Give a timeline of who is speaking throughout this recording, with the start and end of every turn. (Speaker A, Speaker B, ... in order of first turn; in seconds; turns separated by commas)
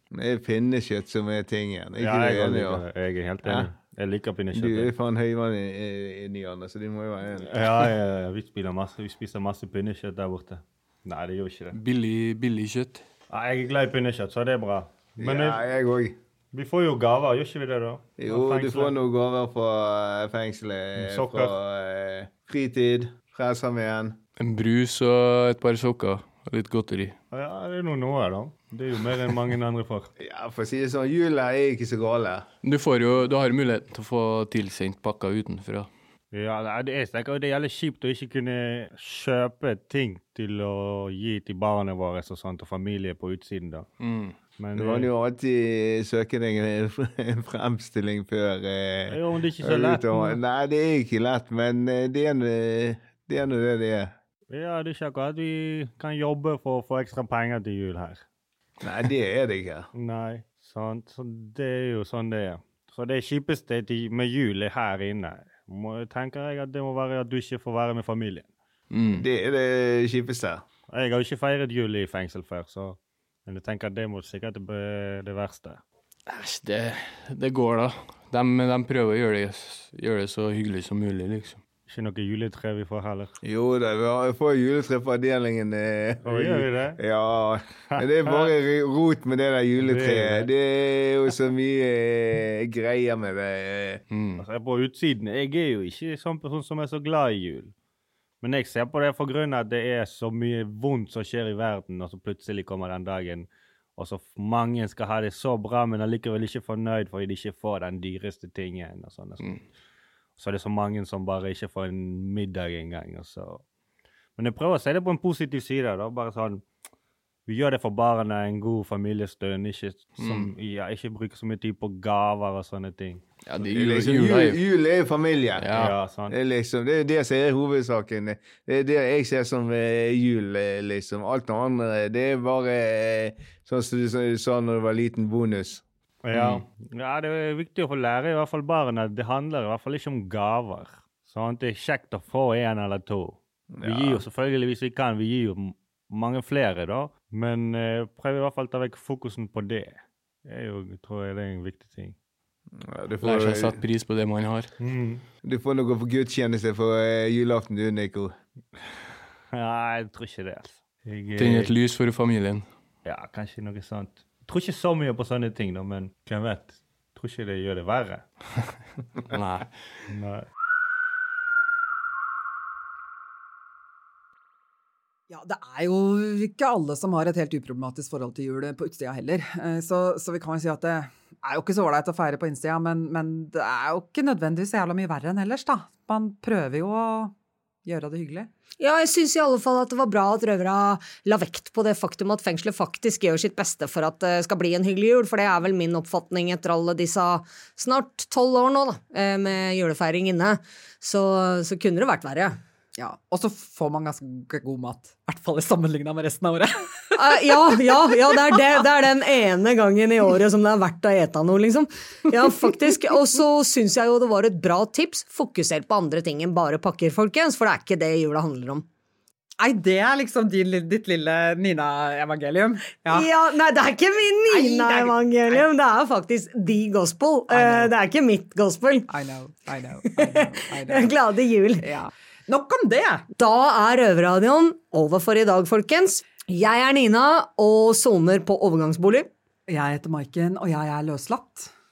Speaker A: 0.1-2.9, Speaker B: 2.0-4.9, Speaker A: 3.4-3.7, Speaker A: 4.5-7.8, Speaker B: 7.5-11.7, Speaker C: 11.7-13.0, Speaker B: 13.3-15.6, Speaker A: 15.2-16.1, Speaker B: 16.5-19.0, Speaker A: 18.2-24.1, Speaker B: 21.0-21.5, Speaker C: 24.4-27.2, Speaker B: 27.3-30.1, Speaker A: 30.2-32.5, Speaker C: 32.6-35.9, Speaker B: 36.3-43.9, Speaker C: 44.0-44.4, Speaker B: 44.5-45.1, Speaker A: 44.8-54.1, Speaker B: 49.1-50.4, Speaker B: 54.5-58.2, Speaker A: 58.8-59.9, Speaker B: 59.9-68.5, Speaker C: 68.9-69.2, Speaker A: 69.2-70.6, Speaker B: 70.9-75.8, Speaker C: 76.3-81.6, Speaker B: 81.9-83.3, Speaker A: 83.4-94.0, Speaker B: 86.2-87.0, Speaker B: 87.9-88.5, Speaker B: 89.8-90.5, Speaker C: 94.1-94.4, Speaker B: 94.4-97.7, Speaker B: 98.4-109.5, Speaker B: 110.4-113.6, Speaker B: 114.4-116.6, Speaker B: 117.5-123.2, Speaker C: 120.2-120.5, Speaker C: 123.5-124.6, Speaker A: 123.7-125.7, Speaker C: 125.6-126.0, Speaker B: 125.7-126.3, Speaker A: 126.3-135.8, Speaker B: 136.2-152.2, Speaker C: 136.3-136.6, Speaker A: 143.7-144.2, Speaker A: 152.8-153.8, Speaker C: 153.2-154.7, Speaker B: 154.8-155.2, Speaker A: 155.4-158.3, Speaker B: 159.5-161.8, Speaker C: 161.4-162.7, Speaker B: 163.1-168.3, Speaker C: 169.3-169.7, Speaker B: 170.1-170.5, Speaker D: 175.3-187.3, Speaker D: 187.8-188.5, Speaker E: 188.8-202.6, Speaker D: 203.0-207.8, Speaker E: 207.2-218.9, Speaker D: 219.6-223.3, Speaker E: 223.1-229.1, Speaker D: 224.5-225.6, Speaker D: 227.5-227.9, Speaker D: 229.1-231.1, Speaker E: 230.2-231.8, Speaker D: 231.8-233.3, Speaker E: 233.4-239.3, Speaker D: 239.7-241.7